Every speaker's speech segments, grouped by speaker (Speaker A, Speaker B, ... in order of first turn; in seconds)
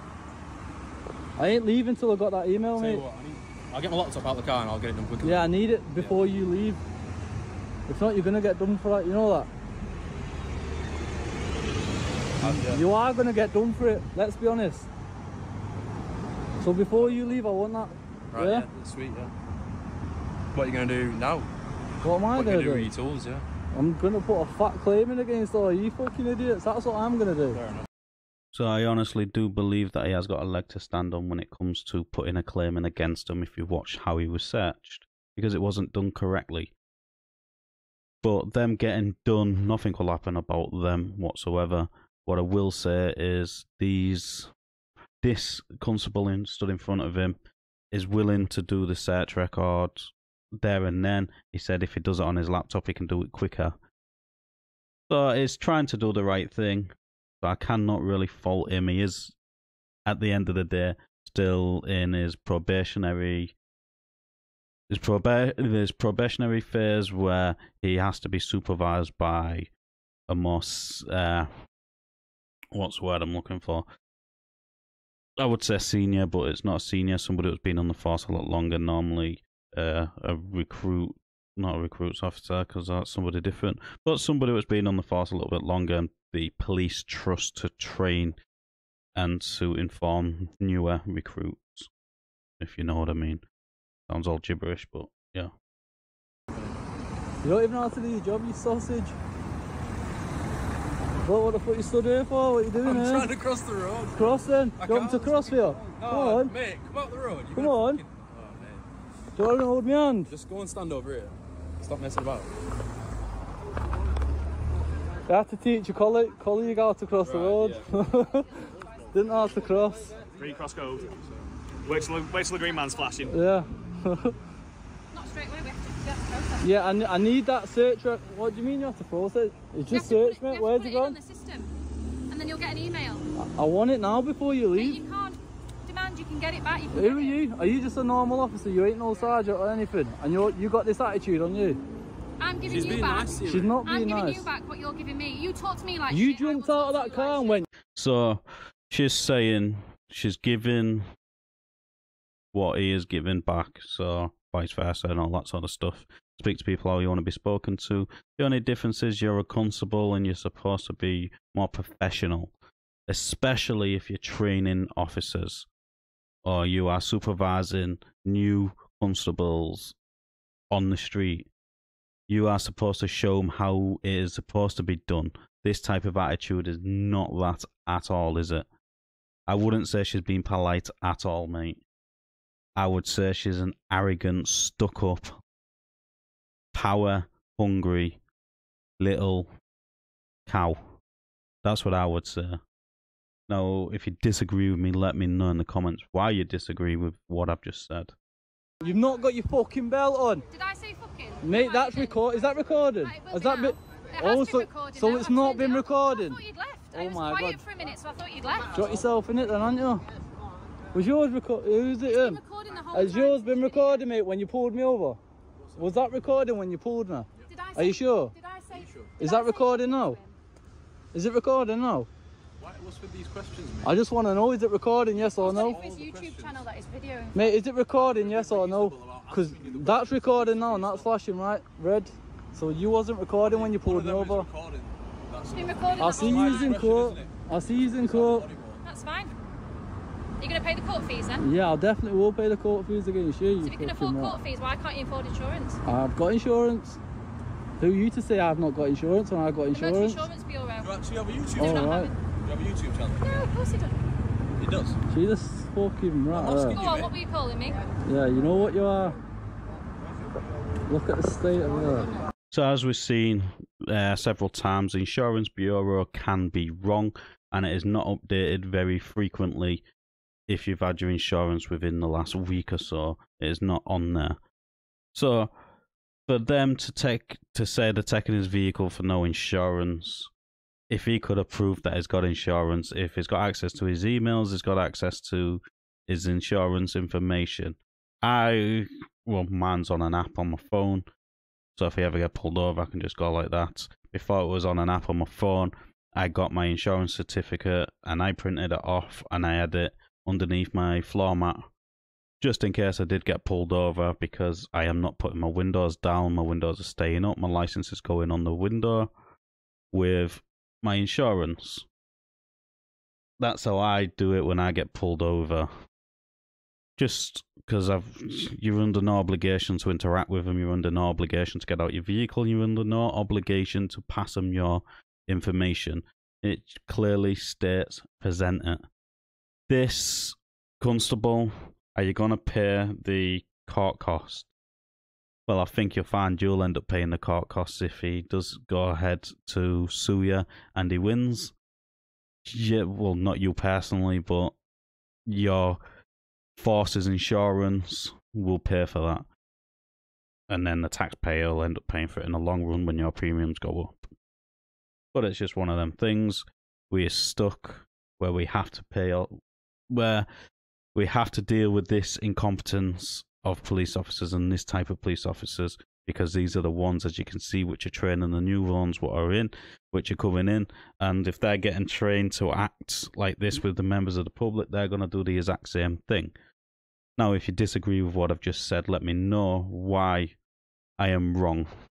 Speaker A: 1.4-3.0, 5.2-6.8, 7.9-9.5, 12.6-14.9, 16.6-18.7, 22.0-22.9, 23.7-27.6, 97.4-99.1, 101.2-103.3, 104.1-106.5, 107.5-108.0, 109.3-110.3, 115.3-118.5, 119.1-120.1, 123.2-124.3, 126.6-131.2, 133.4-135.0, 136.9-141.8, 143.4-144.5, 146.1-147.7, 198.8-200.4, 201.4-206.4, 206.9-207.6, 208.7-210.0, 210.9-212.4, 212.9-215.2, 215.8-218.3, 219.2-220.2, 221.1-222.1, 223.8-225.8, 227.3-234.5, 236.0-238.5, 241.4-244.4, 245.8-247.0, 247.8-250.2, 251.6-252.1, 255.1-256.9, 258.0-259.2, 260.9-262.2
Speaker B: 2.7-6.2, 12.4-12.8, 17.0-17.4, 18.3-19.3, 20.5-21.5, 22.3-23.4, 102.8-108.8, 110.2-112.5, 117.2-117.9, 142.6-143.7, 215.6-215.9, 218.7-219.2, 222.6-224.0, 225.2-226.6, 227.9-231.1, 233.4-237.3, 237.8-238.8, 250.8-251.9, 252.4-253.3, 254.6-255.0, 256.3-257.1
Speaker C: 28.5-36.7, 38.2-44.5, 45.2-47.4, 47.9-53.7, 55.1-59.3, 60.0-63.5, 64.9-69.7, 70.3-71.5, 72.7-73.8, 75.4-88.3, 89.2-91.9, 92.6-93.4, 94.1-95.5, 147.9-151.0, 152.5-162.5, 163.1-165.7, 166.4-169.9, 170.7-171.5, 172.3-178.6, 179.5-181.8, 182.8-185.4, 186.7-188.2, 189.0-189.5, 190.5-190.8, 191.6-192.6, 193.5-198.1, 262.5-269.8, 270.5-274.4, 275.1-275.5, 276.3-280.3, 280.9-291.0, 291.8-301.6, 302.4-309.1, 309.9-311.9, 313.4-315.7, 317.0-328.8, 329.7-334.5, 335.5-341.5, 342.4-344.5, 345.3-345.8, 346.6-349.2, 350.5-354.0, 355.1-359.4, 359.9-360.3, 360.9-376.3, 377.2-380.4, 381.0-381.7
Speaker D: 120.4-121.1, 121.8-123.3
Speaker E: 125.1-126.8, 129.9-131.7, 132.3-133.2, 134.7-137.4, 142.4-147.6, 200.5-208.8, 212.1-214.1, 217.5-220.3, 225.4-227.6, 235.5-236.8, 238.8-239.3, 240.4-241.4, 243.6-245.8, 249.7-250.9, 251.6-252.1, 253.2-254.0, 256.7-257.8